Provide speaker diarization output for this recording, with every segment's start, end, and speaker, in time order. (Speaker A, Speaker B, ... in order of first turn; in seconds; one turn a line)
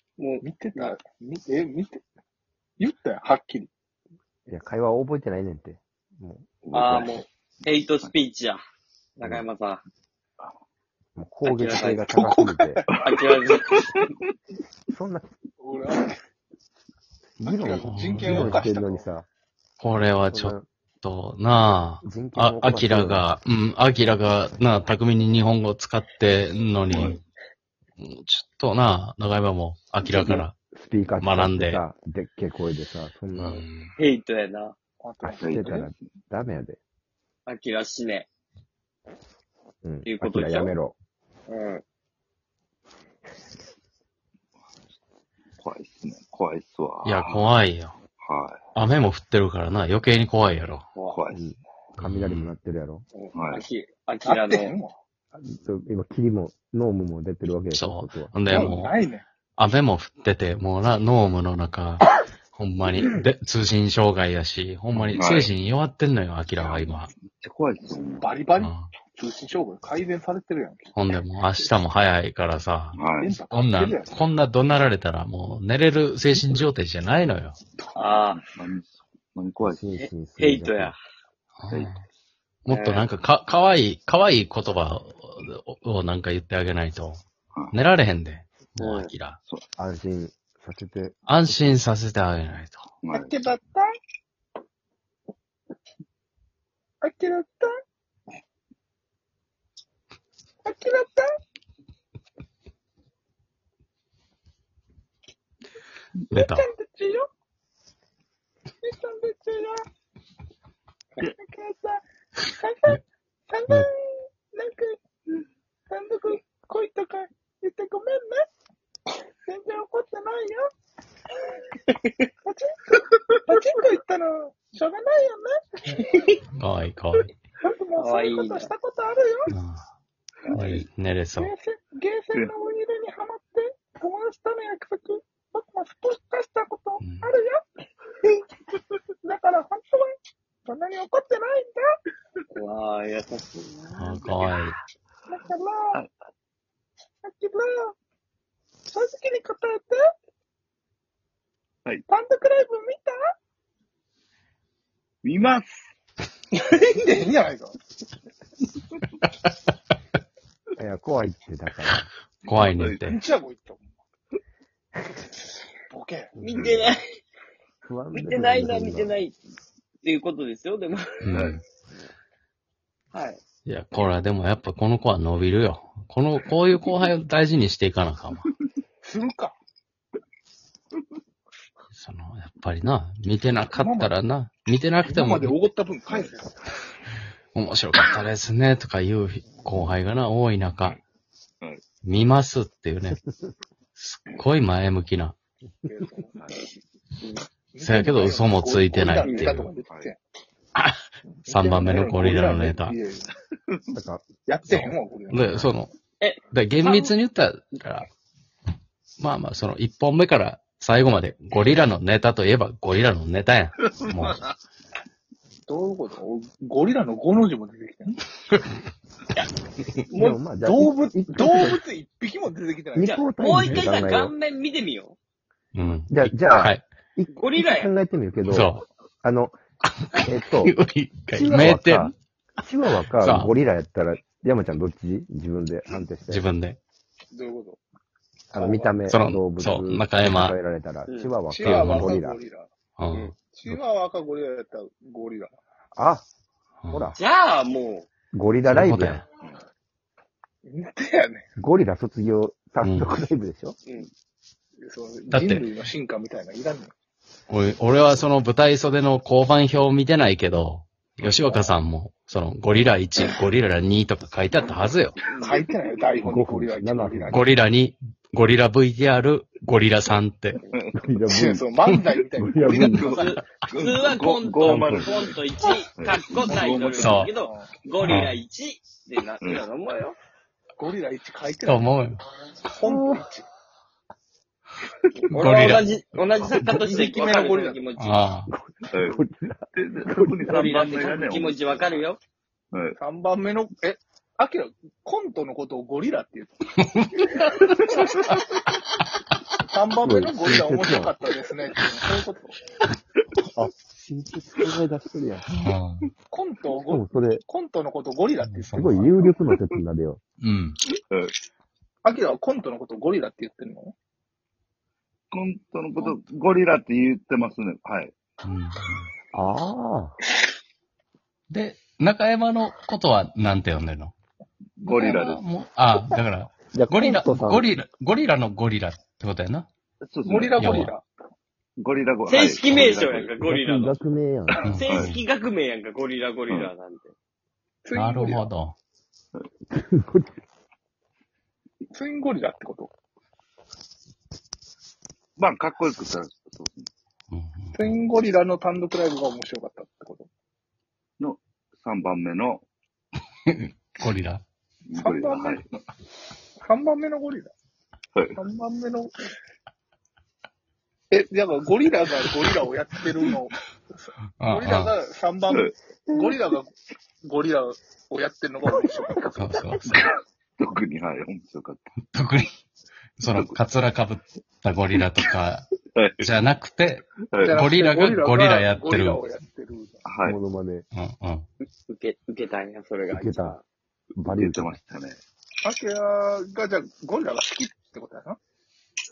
Speaker A: 0.2-0.9
Speaker B: 0.4-2.0
Speaker B: 2.8-3.7
Speaker C: 4.5-6.5
Speaker D: 6.6-7.2
Speaker A: 6.7-8.6
Speaker A: 9.2-9.8
Speaker C: 9.2-9.4
Speaker C: 11.2-12.8
Speaker A: 11.4-12.0
Speaker B: 12.1-12.9
Speaker D: 12.9-14.1
Speaker A: 13.0-13.8
Speaker C: 14.9-15.3
Speaker B: 15.6-16.2
Speaker C: 17.4-19.3
Speaker B: 17.4-19.1
Speaker E: 17.5-18.6
Speaker E: 19.8-27.2
Speaker C: 19.9-20.6
Speaker C: 22.0-23.3
Speaker D: 26.9-27.2
Speaker E: 28.0-30.6
Speaker C: 30.0-33.6
Speaker E: 31.2-31.8
Speaker E: 33.3-33.9
Speaker A: 34.0-34.7
Speaker B: 35.0-35.9
Speaker C: 35.2-36.8
Speaker D: 35.4-36.0
Speaker A: 37.5-38.3
Speaker C: 39.8-41.0
Speaker A: 40.0-40.7
Speaker A: 41.5-41.8
Speaker D: 44.6-45.0
Speaker D: 45.6-47.4
Speaker E: 47.0-48.0
Speaker D: 48.1-48.6
Speaker E: 48.7-50.9
Speaker A: 50.9-51.2
Speaker D: 51.1-51.4
Speaker C: 51.3-53.0
Speaker E: 52.0-52.6
Speaker A: 53.1-54.7
Speaker D: 53.3-53.7
Speaker B: 54.2-54.9
Speaker C: 55.3-58.7
Speaker E: 57.7-59.0
Speaker B: 58.4-59.2
Speaker E: 59.6-67.2
Speaker D: 65.1-65.5
Speaker D: 66.7-68.5
Speaker B: 68.2-70.9
Speaker E: 68.5-68.9
Speaker E: 70.9-77.6
Speaker D: 72.9-73.4
Speaker B: 73.2-74.3
Speaker A: 77.9-78.4
Speaker D: 78.5-79.9
Speaker C: 79.6-81.0
Speaker A: 80.0-81.0
Speaker E: 81.6-82.0
Speaker E: 82.6-89.4
Speaker A: 82.7-83.1
Speaker A: 88.8-89.1
Speaker C: 89.8-91.2
Speaker E: 91.3-93.0
Speaker D: 93.0-93.3
Speaker B: 93.1-93.9
Speaker B: 97.0-97.7
Speaker B: 100.6-101.3
Speaker E: 106.3-106.7
Speaker B: 106.3-107.3
Speaker B: 108.8-109.8
Speaker B: 111.2-115.0
Speaker B: 115.9-118.4
Speaker B: 119.5-120.7
Speaker A: 121.8-122.1
Speaker B: 122.4-126.0
Speaker A: 126.0-126.4
Speaker E: 126.5-127.3
Speaker B: 127.6-129.5
Speaker A: 128.0-128.7
Speaker E: 129.5-129.8
Speaker A: 130.5-130.8
Speaker E: 130.5-131.5
Speaker B: 131.4-137.6
Speaker E: 137.0-137.3
Speaker B: 139.2-140.1
Speaker B: 140.7-141.8
Speaker A: 142.5-144.5
Speaker E: 143.9-144.8
Speaker B: 145.3-146.0
Speaker B: 147.2-147.9
Speaker B: 148.9-150.1
Speaker B: 152.1-153.2
Speaker D: 155.2-155.9
Speaker B: 156.5-157.8
Speaker C: 160.8-162.1
Speaker E: 162.5-163.2
Speaker D: 162.6-163.1
Speaker B: 163.0-163.9
Speaker B: 165.9-166.3
Speaker C: 166.3-167.0
Speaker A: 166.4-167.0
Speaker C: 167.8-169.2
Speaker A: 168.1-169.4
Speaker A: 170.0-171.4
Speaker E: 171.2-171.6
Speaker A: 173.1-173.4
Speaker E: 173.7-178.5
Speaker B: 179.0-179.6
Speaker E: 181.9-185.6
Speaker B: 183.7-184.2
Speaker B: 185.1-186.5
Speaker E: 187.5-191.0
Speaker D: 191.6-191.9
Speaker E: 192.0-193.2
Speaker E: 193.9-195.3
Speaker B: 195.8-196.4
Speaker D: 196.3-196.7
Speaker B: 197.2-200.2
Speaker E: 197.8-199.8
Speaker A: 199.2-199.6
Speaker D: 199.8-200.1
Speaker E: 200.7-203.0
Speaker B: 201.4-203.3
Speaker C: 203.9-204.2
Speaker B: 204.5-205.7
Speaker E: 204.7-205.9
Speaker A: 206.2-207.2
Speaker E: 206.5-208.1
Speaker E: 209.2-214.4
Speaker D: 213.8-214.6
Speaker B: 215.7-218.2
Speaker A: 220.1-220.4
Speaker C: 220.1-221.8
Speaker B: 220.6-223.2
Speaker C: 222.9-224.3
Speaker A: 223.0-225.2
Speaker E: 223.6-223.9
Speaker E: 225.7-226.8
Speaker C: 226.1-229.6
Speaker A: 227.3-227.9
Speaker E: 228.4-228.8
Speaker E: 229.9-232.1
Speaker C: 230.2-230.8
Speaker C: 231.3-236.4
Speaker E: 233.2-233.5
Speaker E: 236.3-236.8
Speaker B: 237.3-237.8
Speaker C: 238.5-242.4
Speaker B: 238.5-239.0
Speaker E: 239.0-240.6
Speaker A: 241.1-241.3
Speaker B: 241.5-242.7
Speaker E: 241.6-242.2
Speaker E: 243.0-243.8
Speaker B: 243.5-245.6
Speaker C: 245.9-246.2
Speaker E: 246.8-247.2
Speaker C: 246.9-247.2
Speaker A: 247.2-248.1
Speaker C: 248.3-249.2
Speaker E: 248.6-249.2
Speaker B: 250.6-251.4
Speaker C: 251.6-253.8
Speaker E: 252.8-253.2
Speaker B: 254.8-256.9
Speaker E: 255.3-255.7
Speaker E: 257.5-265.2
Speaker A: 265.3-265.6
Speaker B: 265.4-267.5
Speaker C: 266.2-267.4
Speaker E: 267.3-270.6
Speaker D: 270.7-271.6
Speaker C: 270.9-271.6
Speaker B: 271.3-273.4
Speaker C: 272.4-273.3
Speaker D: 272.9-275.4
Speaker A: 273.1-280.2
Speaker C: 274.6-275.1
Speaker D: 275.9-277.3
Speaker E: 277.0-277.3
Speaker B: 277.4-277.7
Speaker E: 278.0-278.4
Speaker D: 279.4-279.7
Speaker B: 280.8-281.9
Speaker E: 281.6-282.2
Speaker B: 282.7-283.4
Speaker C: 282.8-283.2
Speaker A: 285.3-288.3
Speaker E: 285.3-286.9
Speaker B: 286.8-287.8
Speaker E: 287.9-288.5
Speaker C: 288.5-290.6
Speaker D: 288.9-292.0
Speaker A: 290.5-292.2
Speaker D: 292.7-293.0
Speaker B: 293.0-296.6
Speaker E: 296.8-297.4
Speaker B: 299.7-302.6
Speaker C: 300.0-301.1
Speaker C: 303.4-305.6
Speaker E: 305.5-306.1
Speaker B: 306.3-309.3
Speaker C: 306.7-307.4
Speaker E: 308.4-309.0
Speaker C: 308.7-310.2
Speaker E: 310.4-310.8
Speaker D: 311.1-311.3
Speaker B: 312.0-313.9
Speaker D: 315.3-318.1
Speaker E: 318.4-319.1
Speaker C: 319.3-320.2
Speaker E: 321.5-324.1
Speaker D: 324.8-325.4
Speaker E: 324.9-329.7
Speaker C: 326.7-327.7
Speaker D: 330.0-330.9
Speaker B: 330.2-331.0
Speaker E: 330.6-330.9
Speaker D: 331.8-333.4
Speaker A: 332.3-334.0
Speaker C: 333.4-334.8
Speaker E: 334.6-335.2
Speaker A: 334.7-337.1
Speaker B: 337.8-338.5
Speaker E: 337.9-338.7
Speaker C: 339.7-340.4
Speaker B: 341.9-342.9
Speaker D: 345.4-346.9
Speaker E: 347.3-347.9
Speaker B: 347.7-350.3
Speaker D: 351.2-352.6
Speaker E: 353.5-354.4
Speaker D: 354.9-355.7
Speaker B: 355.0-355.6
Speaker B: 356.6-357.5
Speaker D: 358.1-358.4
Speaker B: 358.4-359.1
Speaker B: 361.1-366.7
Speaker E: 364.4-364.9
Speaker B: 367.2-369.2
Speaker C: 368.6-370.0
Speaker E: 369.4-369.8
Speaker D: 369.8-371.9
Speaker E: 372.1-372.5
Speaker E: 373.2-379.2
Speaker D: 373.2-373.6
Speaker D: 375.9-376.2
Speaker D: 377.2-377.6
Speaker B: 377.4-380.1
Speaker D: 380.0-380.4
Speaker C: 380.2-380.9
Speaker E: 380.9-381.4
Speaker A: 381.9-383.6
Speaker C: 383.1-383.6
Speaker C: 384.2-384.8
Speaker D: 384.2-385.2
Speaker B: 385.6-388.4